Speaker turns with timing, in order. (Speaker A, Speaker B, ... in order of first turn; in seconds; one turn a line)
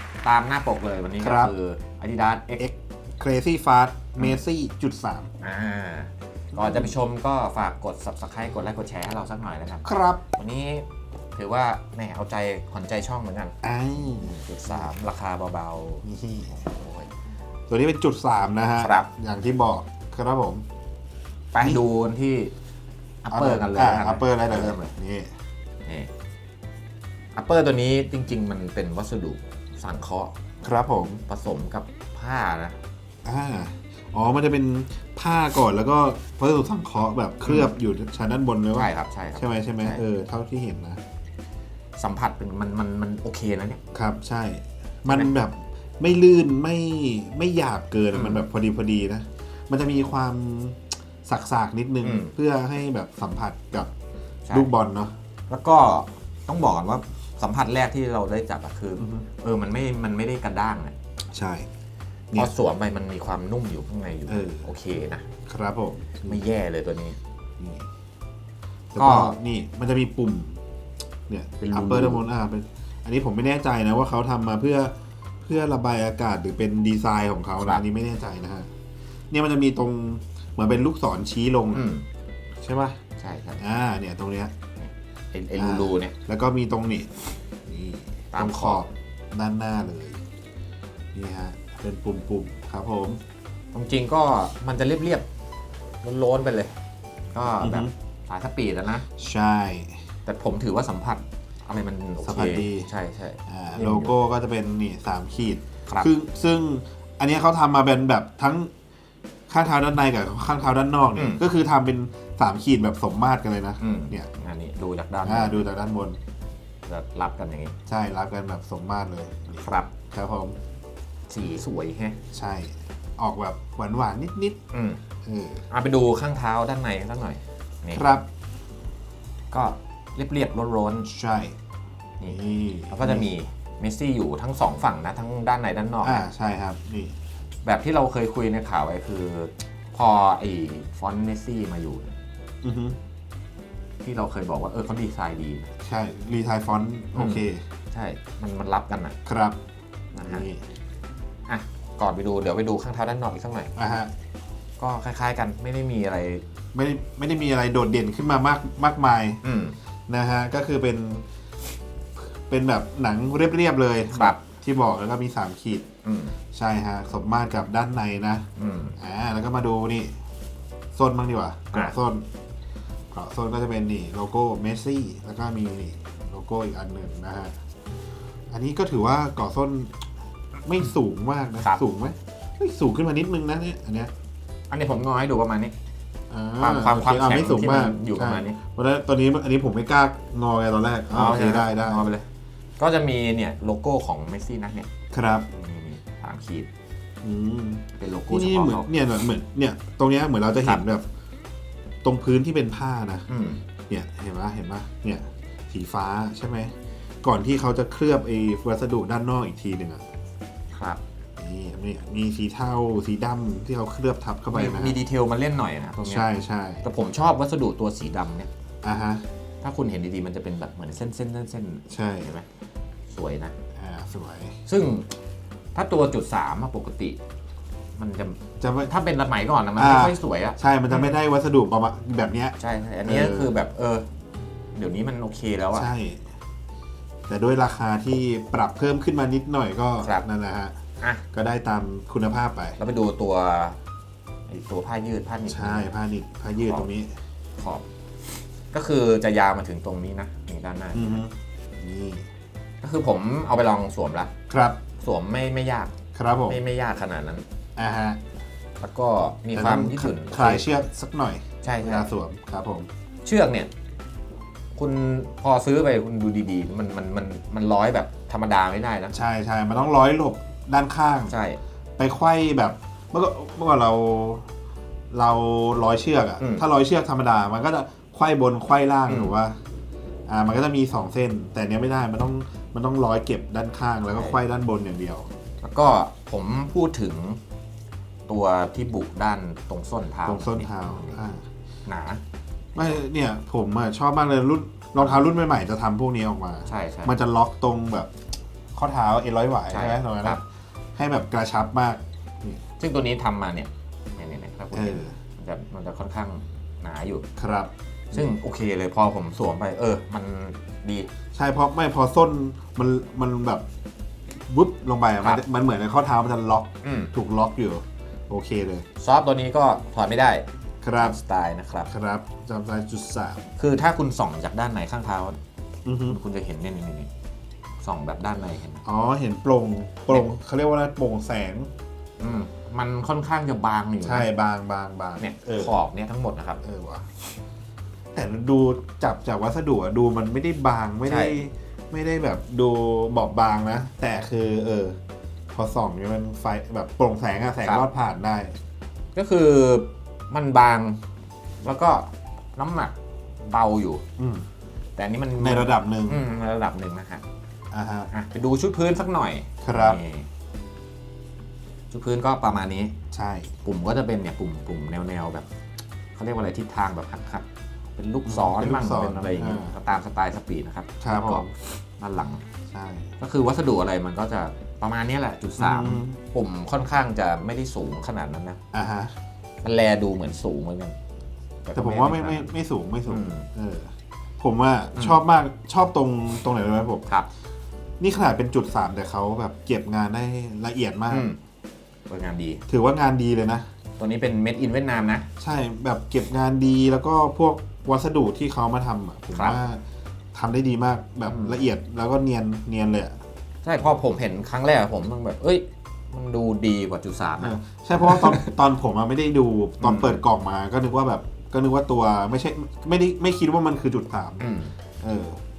Speaker A: 0.2-2.7
Speaker B: 1.2-1.5
Speaker B: 2.6-5.3
Speaker A: 5.4-13.6
Speaker B: 6.5-6.9
Speaker B: 9.8-10.2
Speaker B: 13.6-14.4
Speaker A: 14.2-17.1
Speaker B: 16.0-16.6
Speaker B: 17.7-20.6
Speaker A: 18.8-19.1
Speaker A: 21.5-22.5
Speaker A: 23.2-24.9
Speaker B: 23.3-25.3
Speaker A: 27.4-30.3
Speaker B: 30.6-31.2
Speaker A: 31.3-32.8
Speaker B: 33.2-41.0
Speaker A: 37.4-37.7
Speaker A: 38.7-40.0
Speaker A: 42.0-43.8
Speaker B: 43.9-53.9
Speaker A: 48.1-48.4
Speaker A: 52.0-52.3
Speaker B: 54.5-55.1
Speaker A: 55.5-60.9
Speaker B: 59.0-59.2
Speaker B: 61.3-61.7
Speaker A: 62.3-65.2
Speaker B: 64.3-64.7
Speaker B: 65.5-66.4
Speaker A: 66.2-67.2
Speaker B: 67.6-67.8
Speaker B: 68.9-70.6
Speaker A: 69.0-69.3
Speaker B: 71.3-78.7
Speaker A: 71.6-72.2
Speaker B: 79.3-81.9
Speaker A: 81.7-82.0
Speaker B: 82.6-83.0
Speaker A: 83.2-83.6
Speaker B: 83.6-84.5
Speaker A: 84.8-86.1
Speaker B: 85.5-90.2
Speaker A: 88.3-88.8
Speaker B: 91.1-93.2
Speaker A: 93.7-95.2
Speaker A: 96.0-96.8
Speaker A: 97.3-99.0
Speaker B: 97.6-97.9
Speaker B: 99.2-100.0
Speaker A: 100.2-104.2
Speaker B: 102.2-102.9
Speaker B: 103.5-108.7
Speaker A: 105.9-106.1
Speaker B: 109.5-114.3
Speaker A: 111.1-111.4
Speaker A: 113.8-115.7
Speaker B: 115.2-116.2
Speaker A: 116.9-117.7
Speaker B: 117.9-120.5
Speaker A: 119.6-119.9
Speaker A: 121.3-122.2
Speaker B: 122.3-124.6
Speaker A: 124.7-125.0
Speaker B: 125.2-125.6
Speaker A: 125.7-128.1
Speaker B: 127.9-128.3
Speaker A: 129.5-131.1
Speaker B: 131.0-131.6
Speaker B: 132.3-133.3
Speaker A: 132.9-136.2
Speaker B: 136.0-137.2
Speaker A: 137.7-142.1
Speaker B: 142.6-143.0
Speaker A: 144.0-145.7
Speaker B: 145.8-147.6
Speaker A: 147.2-149.2
Speaker B: 149.2-149.6
Speaker A: 150.1-150.5
Speaker B: 150.2-150.7
Speaker A: 151.5-153.7
Speaker B: 153.8-154.1
Speaker A: 154.8-156.4
Speaker B: 156.7-159.4
Speaker A: 159.4-159.8
Speaker B: 160.1-161.3
Speaker B: 162.2-165.9
Speaker A: 164.1-164.4
Speaker A: 166.0-166.4
Speaker B: 166.5-170.1
Speaker A: 168.6-169.0
Speaker B: 170.9-172.3
Speaker B: 173.1-177.5
Speaker B: 178.5-180.1
Speaker B: 180.7-184.1
Speaker A: 184.7-185.7
Speaker B: 186.3-192.1
Speaker A: 186.6-188.6
Speaker A: 191.1-192.3
Speaker A: 192.8-194.9
Speaker B: 195.1-195.5
Speaker A: 195.5-196.7
Speaker B: 197.2-201.1
Speaker A: 198.0-198.9
Speaker B: 202.0-203.3
Speaker A: 203.3-203.6
Speaker B: 203.9-210.0
Speaker A: 210.7-211.0
Speaker B: 211.4-215.0
Speaker A: 214.5-216.3
Speaker B: 216.0-216.8
Speaker A: 216.8-218.5
Speaker B: 218.8-219.2
Speaker A: 219.6-222.5
Speaker B: 221.9-222.3
Speaker A: 223.1-223.6
Speaker B: 223.8-224.6
Speaker A: 224.7-225.1
Speaker A: 225.8-227.2
Speaker A: 228.0-231.2
Speaker B: 228.6-228.9
Speaker B: 229.8-233.6
Speaker A: 232.6-234.1
Speaker A: 234.7-235.9
Speaker B: 235.7-236.3
Speaker B: 237.3-240.8
Speaker A: 240.0-240.2
Speaker B: 241.3-242.8
Speaker A: 242.8-243.8
Speaker A: 244.5-245.9
Speaker B: 245.5-247.1
Speaker A: 246.6-246.9
Speaker A: 247.6-247.8
Speaker A: 248.7-251.2
Speaker B: 250.9-252.3
Speaker A: 252.8-254.3
Speaker B: 254.5-254.8
Speaker A: 255.0-255.9
Speaker B: 256.1-256.6
Speaker A: 256.4-257.4
Speaker B: 257.8-258.2
Speaker A: 258.8-260.7
Speaker B: 259.5-262.9
Speaker A: 261.6-262.1
Speaker A: 263.2-263.7
Speaker A: 264.8-269.1
Speaker B: 269.1-271.4
Speaker A: 271.3-271.6
Speaker B: 272.0-274.5
Speaker B: 275.1-279.6
Speaker A: 276.4-276.6
Speaker A: 279.1-279.4
Speaker B: 280.3-285.3
Speaker A: 284.1-284.4
Speaker A: 285.6-287.4
Speaker A: 288.3-291.2
Speaker B: 290.2-291.4
Speaker A: 291.9-292.2
Speaker A: 292.8-293.0
Speaker B: 292.8-298.1
Speaker A: 295.0-295.3
Speaker A: 296.7-297.1
Speaker B: 298.7-300.4
Speaker A: 299.7-300.4
Speaker B: 300.9-302.6
Speaker A: 302.8-307.2
Speaker B: 304.7-305.1
Speaker B: 307.4-308.3
Speaker A: 308.1-311.1
Speaker B: 311.3-313.6
Speaker B: 314.4-318.8
Speaker A: 316.8-317.1
Speaker A: 319.0-320.4
Speaker B: 320.8-321.2
Speaker A: 321.0-321.9
Speaker B: 321.9-323.5
Speaker A: 323.6-325.4
Speaker B: 325.8-326.2
Speaker A: 326.1-327.1
Speaker A: 327.8-328.8
Speaker B: 328.8-331.7
Speaker A: 332.2-334.3
Speaker B: 334.0-335.8
Speaker A: 335.2-336.6
Speaker B: 336.6-337.2
Speaker B: 338.1-345.0
Speaker A: 341.1-341.4
Speaker B: 345.5-348.6
Speaker A: 349.1-351.0
Speaker A: 351.6-354.0
Speaker B: 354.2-354.4
Speaker A: 354.9-357.2
Speaker B: 355.4-356.2
Speaker B: 357.7-358.1
Speaker A: 358.1-360.3
Speaker B: 359.6-360.0
Speaker A: 361.9-362.9
Speaker B: 363.1-363.5
Speaker A: 363.6-365.5
Speaker A: 366.1-367.4
Speaker A: 367.9-372.4
Speaker B: 368.2-369.8
Speaker B: 371.0-371.5
Speaker B: 372.7-373.1
Speaker A: 373.2-378.6
Speaker B: 375.6-376.2
Speaker B: 378.7-379.1
Speaker A: 379.6-380.9
Speaker A: 381.6-382.5
Speaker B: 381.7-387.1
Speaker A: 383.1-383.5
Speaker A: 384.9-385.2
Speaker B: 388.0-391.3
Speaker A: 391.1-391.4
Speaker A: 392.1-392.6
Speaker B: 392.7-393.7
Speaker A: 394.0-395.3
Speaker B: 395.4-399.8
Speaker B: 400.3-403.1
Speaker A: 401.2-401.6
Speaker A: 403.6-408.5
Speaker B: 407.4-414.5
Speaker A: 409.8-410.2
Speaker A: 414.4-414.8
Speaker B: 415.0-415.4